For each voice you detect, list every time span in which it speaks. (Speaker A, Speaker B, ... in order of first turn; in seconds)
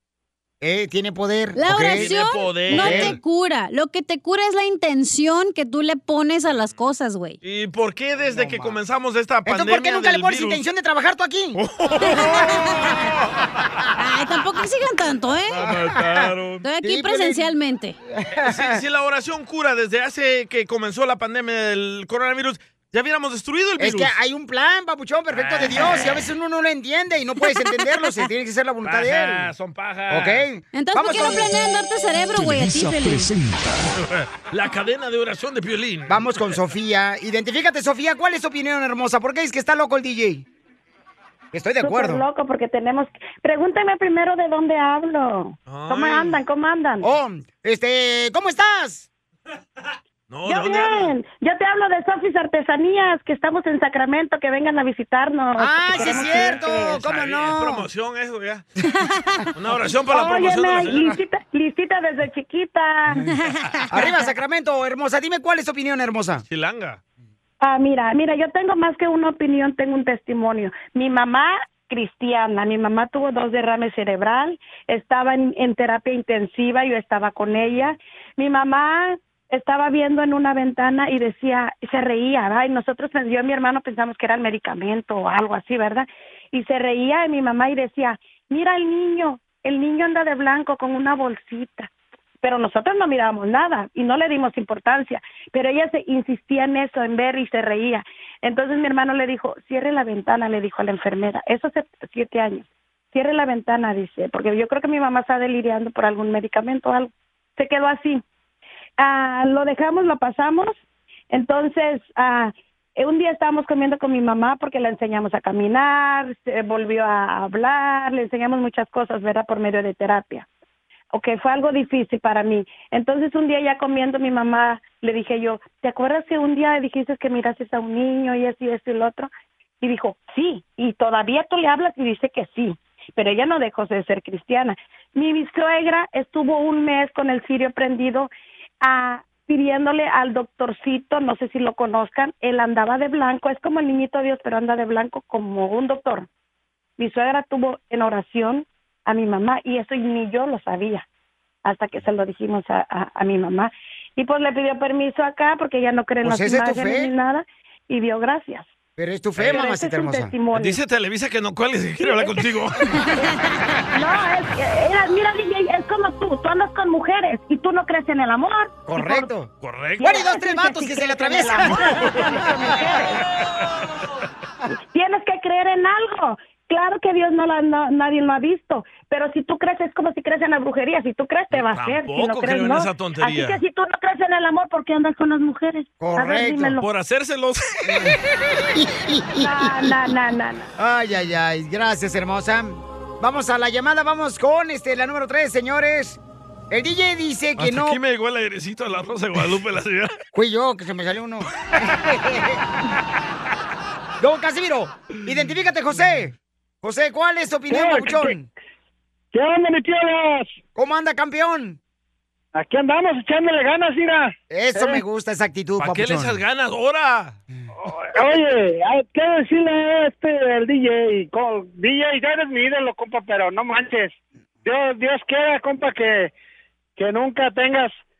Speaker A: 0.6-2.2, 2.7-3.2, 8.2-8.8, 9.5-11.6, 15.6-16.3, 16.8-18.8, 23.8-29.5, 30.1-31.5, 36.1-40.5, 41.5-42.2, 47.0-49.1, 55.6-57.9, 63.9-66.4, 156.2-157.1, 159.0-160.3, 168.9-169.5, 170.0-172.4, 186.0-186.8, 188.8-189.5, 190.8-196.2, 196.7-198.0, 200.3-202.6, 204.2-208.5, 210.8-211.8, 214.5-216.4
Speaker B: 1.6-7.4, 12.0-12.9, 14.0-15.7, 16.6-18.0, 30.7-33.3, 59.0-59.4, 63.3-63.9, 163.1-163.3
Speaker C: 1.8-3.1, 7.4-10.6, 11.6-13.4, 15.5-16.6, 18.4-24.1, 25.3-26.2, 28.8-30.5, 34.0-36.5, 45.7-46.4, 50.3-51.1, 56.0-58.7, 59.5-61.2, 66.4-67.0, 160.5-163.1, 169.6-170.3, 171.5-172.6, 181.5-183.6, 186.8-188.1, 197.6-200.1, 215.8-217.4
Speaker D: 41.8-47.1, 50.5-57.0, 60.1-63.3, 67.6-91.9, 92.4-108.2, 109.0-110.8, 111.3-120.5, 121.1-129.3, 129.8-146.3, 147.0-151.1, 151.7-158.7, 159.4-160.8, 162.0-162.3, 163.9-169.3, 170.0-173.2, 174.9-186.9, 189.3-190.7
Speaker E: 207.7-208.3, 209.3-210.6, 212.5-215.0, 217.9-226.3, 227.0-227.9